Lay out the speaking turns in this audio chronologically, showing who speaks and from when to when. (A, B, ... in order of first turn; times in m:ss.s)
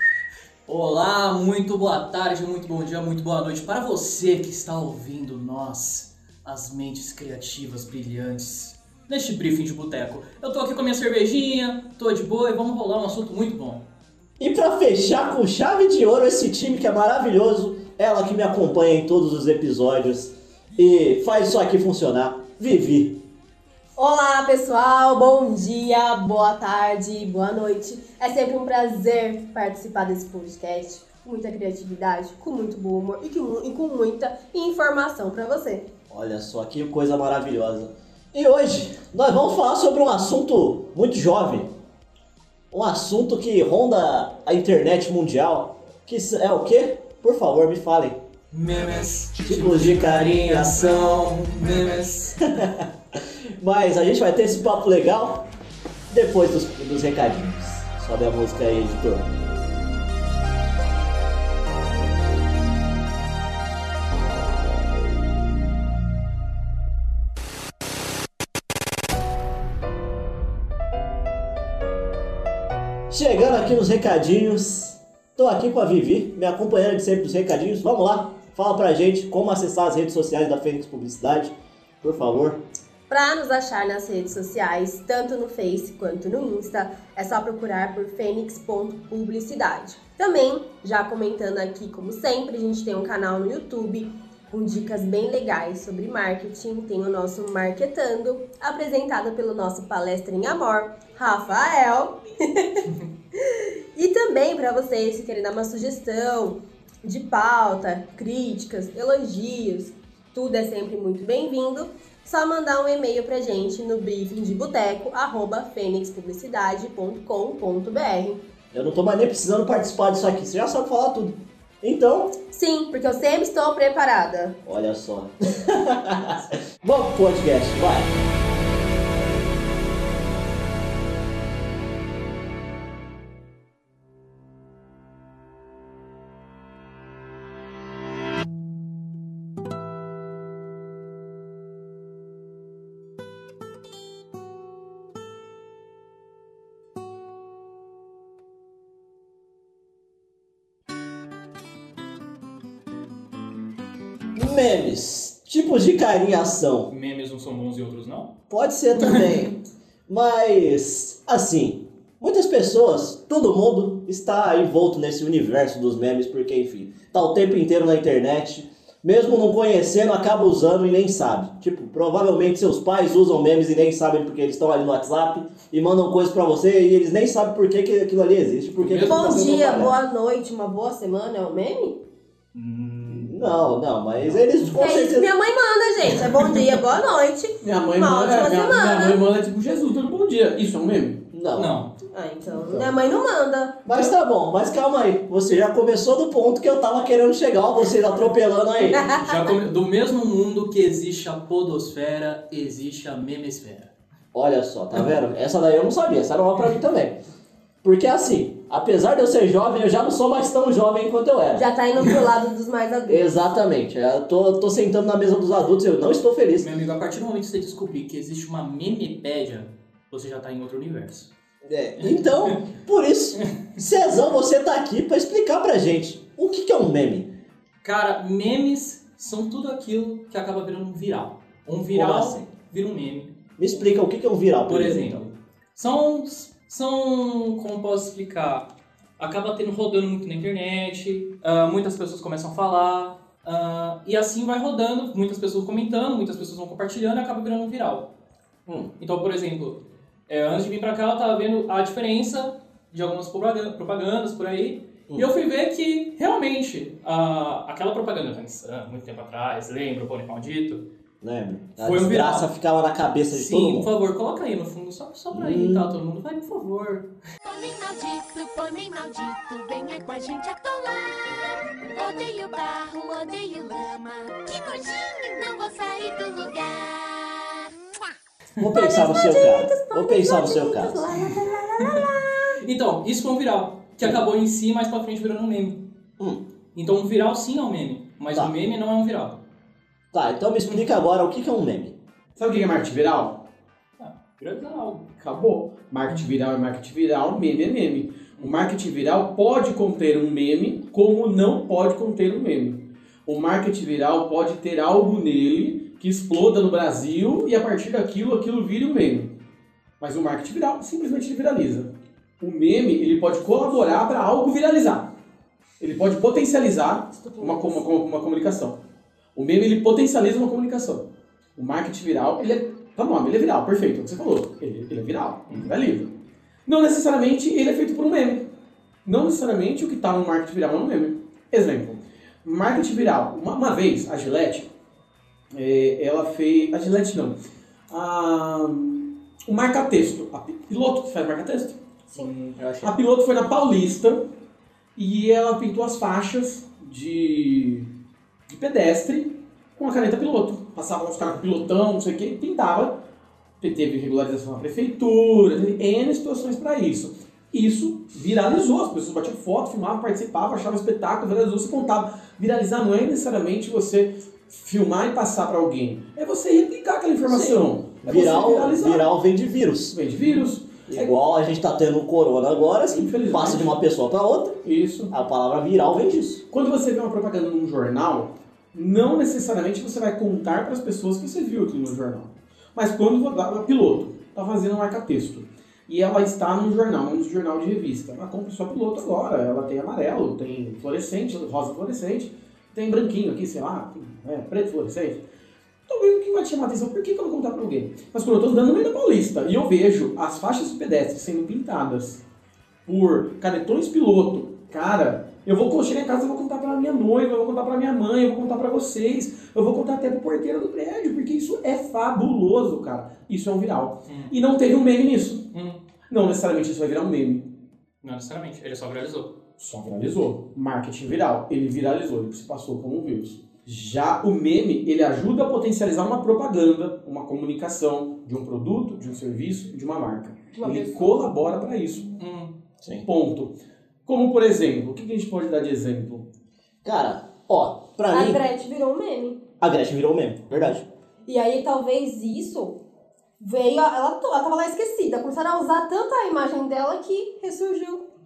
0:00.7-0:13.8 A
0:14.4-0:23.2 B
0:24.0-0:35.9 C
0:36.1-0:41.7 B
0:42.7-0:48.2 B
0:48.5-0:52.4 A
0:49.4-0:51.5 B
0:52.4-0:55.4 B
0:56.1-0:59.3 B
1:13.1-1:22.6 B
1:23.1-1:58.4 C
1:58.7-2:02.3 B
2:02.5-2:04.6 C
2:04.7-2:08.1 B
2:34.3-2:36.9 B
2:36.9-2:38.3 A
2:38.5-3:00.0 B
2:58.8-2:59.6 A
2:59.0-3:02.0 C
3:02.5-3:04.8 A
3:03.1-3:05.3 B
3:04.8-3:09.2 C
3:07.6-3:11.2 D
3:11.3-3:11.8 B
3:11.6-3:11.9 A
3:12.1-3:13.8 C
3:13.8-3:19.2 B
3:19.1-3:19.4 C
3:19.2-3:23.9 A
3:24.3-3:27.2 B
3:27.8-3:31.6 B
3:31.6-3:33.3 C
3:33.1-3:36.7 B
3:36.6-3:41.3 A
3:41.6-3:47.3 B
3:42.0-3:42.6 A
3:47.8-3:53.3 A
3:51.9-3:52.5 B
3:53.6-3:55.2 B
3:54.7-3:58.6 A
3:59.2-4:08.1 A
4:08.7-4:08.9 B
4:09.0-4:20.8 A
4:21.2-4:23.9 B
4:21.8-4:22.5 A
4:23.3-4:27.1 A
4:25.3-4:25.9 B
4:27.4-4:37.7 E
4:38.6-4:41.1 B
4:38.6-4:42.6 C
4:42.6-4:45.8 A
4:46.7-4:49.4 A
4:50.1-4:51.9 B
4:52.4-4:53.4 D
4:54.0-4:55.0 A
4:55.2-5:09.3 D
5:10.0-5:15.1 D
5:15.8-5:18.8 D
5:17.1-5:17.8 C
5:19.3-5:26.1 D
5:26.6-5:28.5 D
5:29.0-5:34.7 D
5:35.5-5:37.4 D
5:37.9-5:41.8 D
5:42.2-5:42.9 A
5:42.8-5:44.2 D
5:45.0-5:47.9 D
5:48.5-5:53.0 D
5:53.6-6:09.1 D
6:07.3-6:10.0 B
6:09.9-6:11.1 D
6:10.9-6:16.4 B
6:12.9-6:13.7 D
6:14.6-6:15.1 D
6:16.5-6:35.2 D
6:35.9-6:42.2 D
6:42.8-6:55.4 D
6:54.1-6:54.3 A
6:55.5-6:55.8 A
6:56.1-6:57.5 D
6:58.0-6:59.3 A
6:59.6-7:12.1 D
7:10.6-7:11.1 C
7:12.2-7:12.5 A
7:13.0-7:13.5 D
7:14.1-7:16.2 D
7:16.8-7:18.4 B
7:18.1-7:19.4 C
7:19.6-7:20.9 B
7:21.3-7:22.8 C
7:23.4-7:28.0 C